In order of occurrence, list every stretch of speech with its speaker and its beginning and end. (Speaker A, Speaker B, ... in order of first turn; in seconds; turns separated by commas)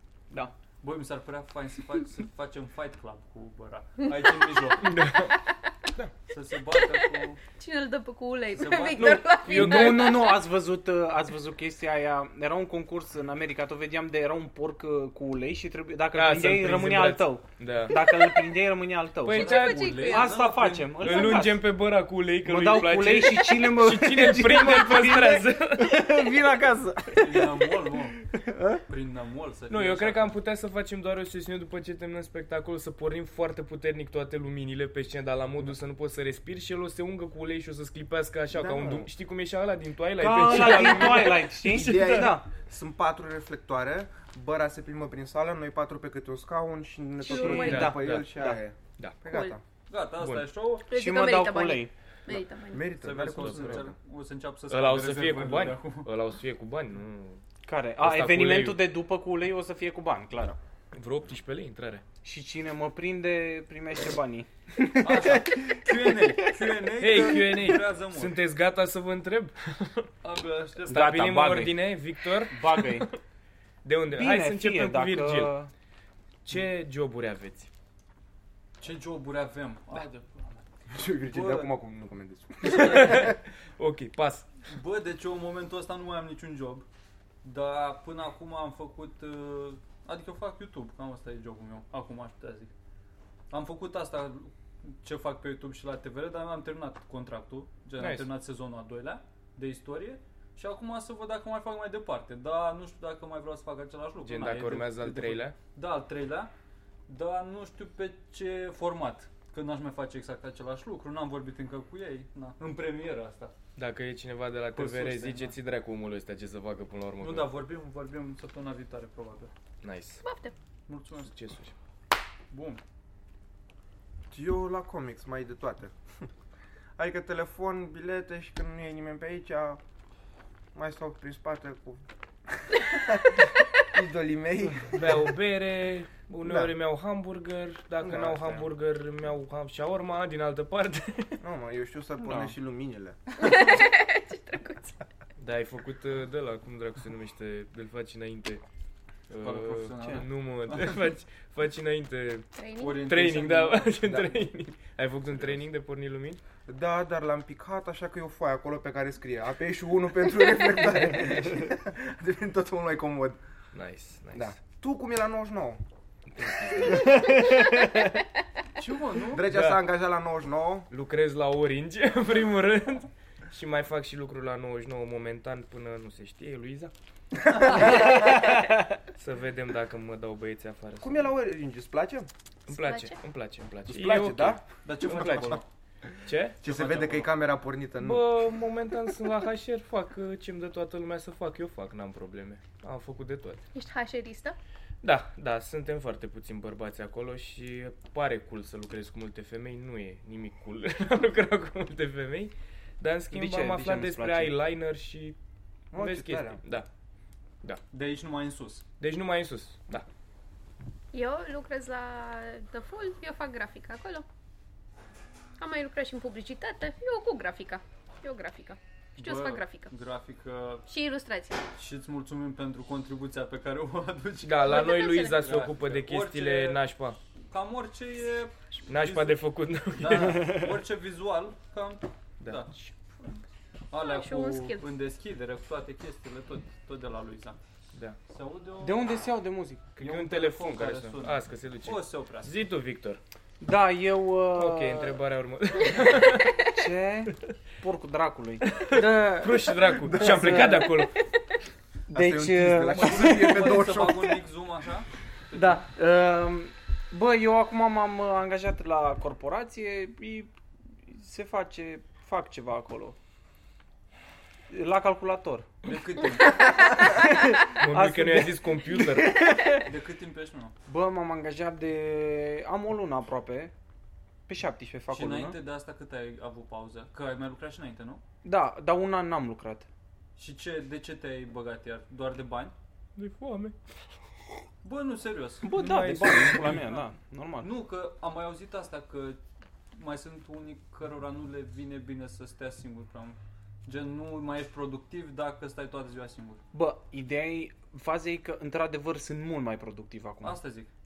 Speaker A: 0.8-5.0, Speaker B: 4.0-5.7, Speaker C: 4.8-5.3, Speaker A: 6.3-7.4, Speaker B: 7.5-10.5, Speaker A: 8.5-9.4, Speaker C: 8.9-10.3, Speaker D: 9.5-21.7, Speaker C: 16.1-18.2, Speaker C: 19.2-20.0, Speaker A: 19.2-21.4, Speaker B: 19.3-20.6, Speaker C: 20.9-26.3, Speaker D: 22.4-27.6, Speaker A: 27.1-28.2, Speaker D: 28.3-28.8, Speaker A: 28.9-30.3, Speaker C: 29.7-42.4, Speaker E: 38.5-39.1, Speaker D: 40.2-42.5, Speaker E: 41.7-49.6, Speaker B: 47.2-48.0, Speaker D: 47.2-48.6, Speaker C: 47.5-49.2, Speaker B: 49.3-49.5, Speaker A: 49.9-50.9, Speaker C: 50.2-50.5, Speaker B: 50.9-52.9, Speaker D: 50.9-51.9, Speaker E: 52.3-53.9, Speaker A: 53.0-56.1, Speaker C: 53.3-53.9, Speaker C: 54.7-57.4, Speaker D: 57.6-60.5, Speaker C: 58.0-58.8, Speaker C: 60.9-62.0, Speaker D: 62.2-66.7, Speaker A: 65.0-68.4, Speaker C: 67.0-70.1, Speaker A: 70.2-71.5, Speaker C: 70.9-73.1, Speaker D: 70.9-71.9, Speaker D: 72.5-73.1, Speaker C: 73.8-75.5, Speaker D: 74.1-75.7, Speaker C: 76.4-77.7, Speaker A: 78.8-80.6, Speaker E: 80.9-83.4, Speaker A: 81.3-81.7, Speaker C: 82.6-84.5, Speaker A: 84.7-86.8, Speaker A: 87.4-92.7, Speaker A: 93.5-106.5, Speaker C: 98.0-98.3, Speaker C: 104.2-105.5, Speaker A: 107.1-113.5, Speaker C: 113.8-117.6, Speaker A: 114.7-115.5, Speaker A: 117.2-119.5, Speaker C: 119.8-120.2, Speaker B: 120.2-120.5, Speaker A: 120.9-121.3, Speaker C: 121.2-121.7, Speaker A: 122.5-122.8, Speaker E: 124.3-125.9, Speaker E: 127.0-129.8, Speaker E: 130.7-132.0, Speaker E: 132.7-135.2, Speaker C: 134.8-141.4, Speaker E: 136.4-136.8, Speaker E: 138.0-138.7, Speaker E: 141.4-143.2, Speaker D: 142.2-142.5, Speaker B: 143.4-144.9, Speaker C: 145.4-148.6, Speaker C: 149.3-156.4, Speaker A: 149.4-151.1, Speaker B: 152.6-153.0, Speaker A: 152.8-153.9, Speaker E: 156.7-163.4, Speaker C: 163.7-164.6, Speaker E: 164.3-165.8, Speaker C: 166.3-168.0, Speaker A: 168.8-169.4, Speaker E: 169.3-170.9, Speaker C: 169.4-169.9, Speaker C: 170.9-176.9, Speaker C: 177.6-181.3, Speaker E: 177.6-178.1, Speaker E: 181.0-182.3, Speaker C: 182.7-185.6, Speaker B: 182.7-183.2, Speaker E: 183.9-185.4, Speaker A: 184.8-185.6, Speaker C: 186.2-186.6, Speaker E: 186.6-188.3, Speaker A: 186.6-187.3, Speaker C: 188.0-193.6, Speaker B: 193.7-194.6, Speaker C: 195.0-205.4, Speaker D: 203.3-204.5, Speaker E: 205.9-206.6, Speaker C: 205.9-206.9, Speaker A: 207.9-208.8, Speaker C: 209.0-210.1, Speaker B: 211.1-214.2, Speaker B: 215.6-219.9, Speaker A: 219.2-220.9, Speaker B: 220.9-221.6, Speaker A: 221.8-226.8, Speaker C: 224.4-227.2, Speaker B: 224.7-225.4, Speaker A: 227.5-229.4, Speaker C: 228.9-230.6, Speaker A: 229.9-232.7, Speaker C: 232.4-232.7, Speaker A: 233.9-237.6, Speaker B: 234.0-234.9, Speaker A: 238.3-239.0, Speaker D: 238.8-239.8, Speaker C: 239.9-243.2, Speaker A: 240.0-242.5, Speaker D: 243.6-245.2, Speaker C: 244.5-246.7, Speaker D: 246.7-251.0, Speaker C: 248.6-251.2, Speaker E: 250.0-250.7, Speaker D: 252.1-253.9, Speaker E: 252.1-254.4, Speaker A: 252.9-255.8, Speaker D: 255.5-263.2, Speaker D: 264.7-265.8, Speaker A: 265.8-267.0, Speaker D: 267.0-269.9, Speaker C: 267.6-269.4, Speaker A: 269.8-270.7, Speaker D: 270.9-273.7, Speaker D: 274.5-275.6, Speaker A: 275.1-278.2, Speaker D: 278.4-279.9, Speaker A: 280.4-282.7, Speaker C: 283.2-283.7, Speaker A: 284.8-286.0, Speaker D: 285.6-287.7, Speaker C: 285.7-286.9, Speaker A: 286.6-286.9, Speaker A: 287.6-289.4, Speaker A: 289.9-296.6, Speaker D: 296.7-300.6, Speaker A: 300.4-300.9